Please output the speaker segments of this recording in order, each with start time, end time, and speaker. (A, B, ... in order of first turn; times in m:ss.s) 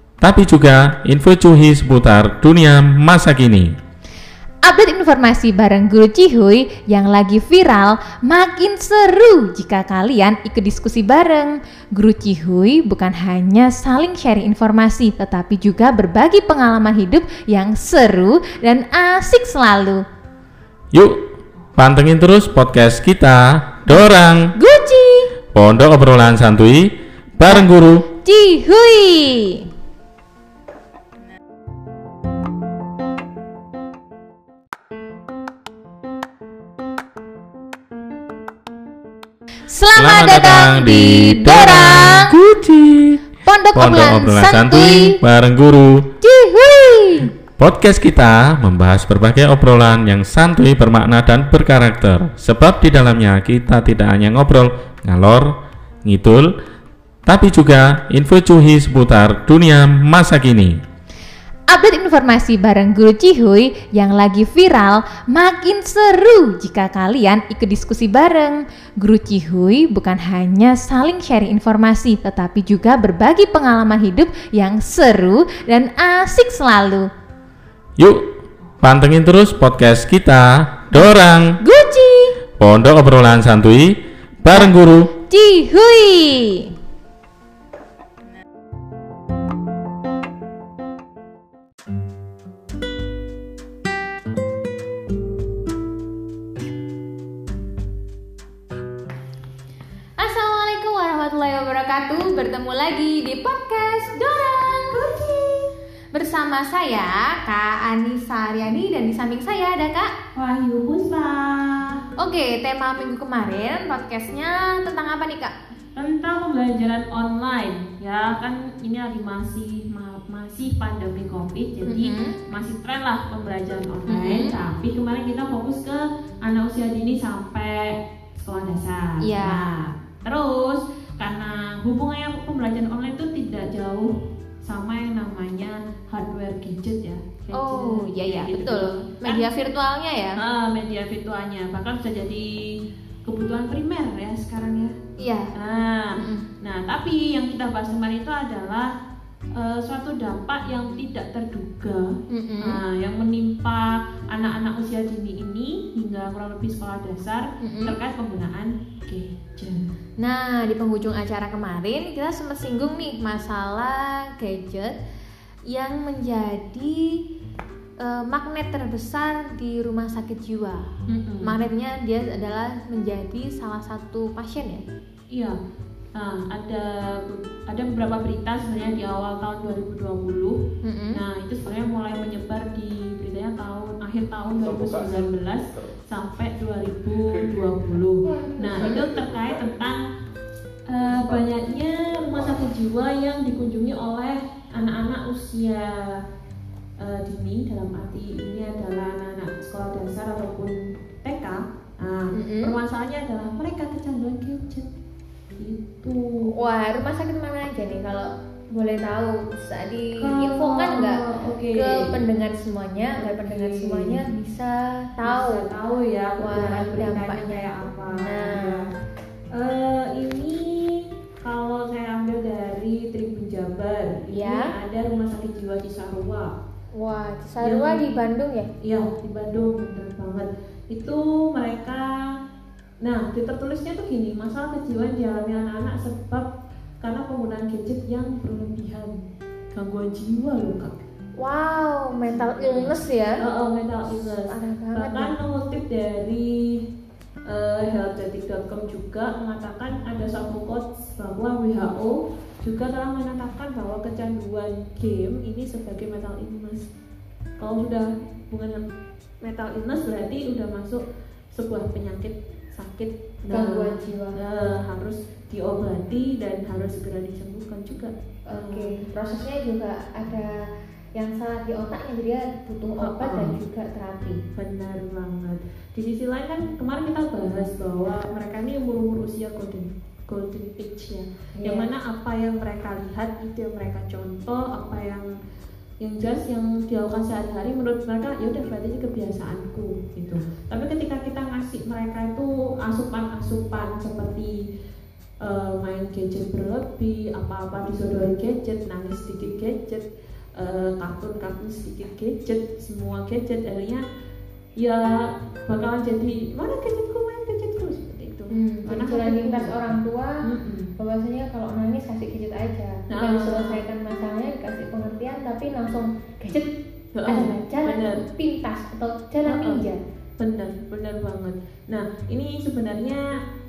0:00.2-0:03.7 A
0:04.6-0:20.0 B
0:20.9-0:21.2 A
0:21.8-0:24.5 A
0:24.5-0:25.3 B
0:25.5-0:28.0 A
0:27.4-0:29.7 B
0:39.7-0:42.3 B
0:40.0-0:43.2 A
0:43.4-0:45.2 B
0:43.7-0:46.1 A
0:46.2-0:47.3 B
0:47.6-0:56.5 A
0:57.2-1:00.8 A
1:01.7-1:17.1 B
1:18.0-1:18.3 A
1:18.8-1:21.6 A
1:21.6-1:22.3 B
1:22.6-1:25.1 A
1:25.3-1:26.7 B
1:40.2-1:45.1 B
1:44.9-1:45.7 C
1:46.1-1:50.1 B
1:50.3-1:52.0 C
1:52.2-1:55.5 B
1:56.0-2:14.1 C
2:01.8-2:02.4 B
2:04.1-2:04.6 B
2:09.2-2:09.7 B
2:14.6-2:19.5 C
2:17.5-2:20.4 B
2:20.4-2:22.6 C
2:23.2-2:24.9 C
2:25.2-2:25.5 B
2:25.5-2:28.9 C
2:26.2-2:26.4 B
2:29.5-2:39.9 C
2:32.3-2:32.8 B
2:37.6-2:37.9 B
2:40.2-2:45.0 B
2:45.7-2:47.2 B
2:48.0-2:50.9 B
2:51.1-2:51.5 C
2:51.4-2:54.8 B
2:56.1-3:00.6 C
3:00.8-3:01.2 B
3:01.1-3:10.0 C
3:08.2-3:09.1 B
3:10.9-3:16.2 C
3:17.0-3:24.9 C
3:22.3-3:22.7 B
3:25.5-3:26.5 C
3:26.4-3:35.7 B
3:30.2-3:32.1 C
3:33.2-3:34.2 C
3:35.2-3:38.9 C
3:36.4-3:38.8 B
3:39.5-3:46.5 C
3:44.3-3:44.7 B
3:46.9-3:48.7 B
3:47.6-3:48.0 C
3:48.8-3:52.1 C
3:53.0-3:56.4 C
3:57.0-3:59.2 C
3:59.7-4:01.0 C
4:01.4-4:03.4 B
4:02.3-4:06.8 C
4:04.1-4:05.3 B
4:07.5-4:16.8 C
4:17.6-4:18.8 C
4:19.4-4:21.0 C
4:21.5-4:29.0 C
4:23.5-4:24.4 B
4:28.5-4:34.4 B
4:33.0-4:33.6 C
4:34.6-4:45.3 C
4:41.6-4:41.9 B
4:46.0-4:54.5 C
4:55.4-5:00.0 C
5:00.6-5:04.0 C
5:04.8-5:09.7 C
5:08.5-5:10.4 B
5:10.4-5:10.9 C
5:11.0-5:16.7 B
5:13.1-5:13.8 C
5:17.1-5:18.2 C
5:17.2-5:20.0 B
5:19.4-5:19.8 C
5:20.4-5:23.2 C